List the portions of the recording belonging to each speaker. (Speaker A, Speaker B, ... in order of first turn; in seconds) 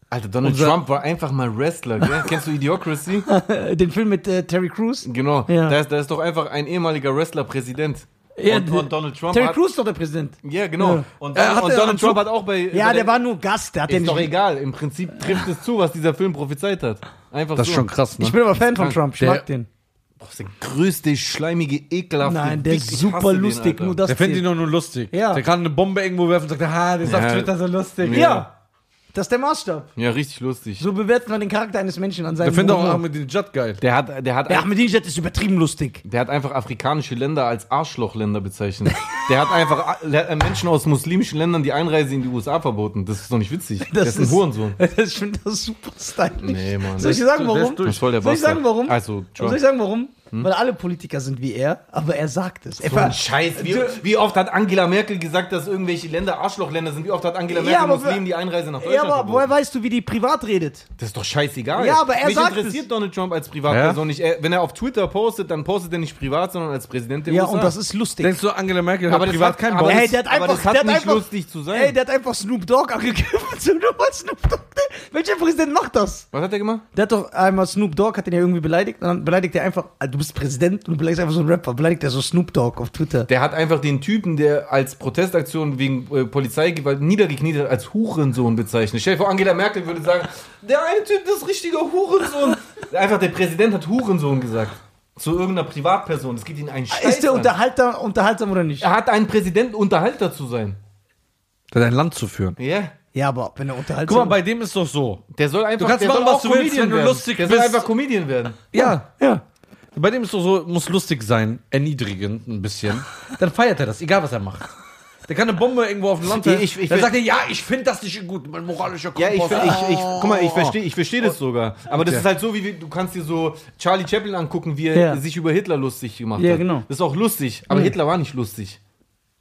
Speaker A: 0.1-3.3, 5.0-9.6, 10.4-13.1, 13.9-17.9, 20.2-24.0, 27.0-28.4, 30.0-30.9, 33.8-34.7, 36.0-44.8, 46.4-47.2, 47.8-49.6, 52.8-59.5, 61.0-67.8, 69.1-72.0, 76.3-76.8, 83.3-97.5, 98.8-100.8, 102.6-102.9, 105.3-108.6, 116.2-117.1, 119.2-128.8
Speaker B: 0.4-0.8, 11.3-12.3, 17.6-18.4, 19.2-19.4, 24.1-28.5, 32.4-33.8, 47.0-48.0, 63.7-64.0, 68.2-70.1, 101.7-102.6, 104.0-105.2, 105.8-107.9, 108.7-109.3, 109.9-114.7, 115.3-120.7, 121.9-122.2
Speaker C: 3.3-5.8, 8.4-11.1, 12.7-14.3, 18.2-19.7, 22.2-24.5, 25.1-25.4, 28.1-28.5, 29.1-29.9, 30.8-33.0, 34.5-36.0, 43.8-53.9, 57.5-58.2, 58.8-60.9, 61.7-62.8, 67.3-68.3, 69.8-76.2, 76.9-83.3, 96.9-98.9, 103.1-104.4, 108.8-109.4, 124.9-125.2, 126.4-126.9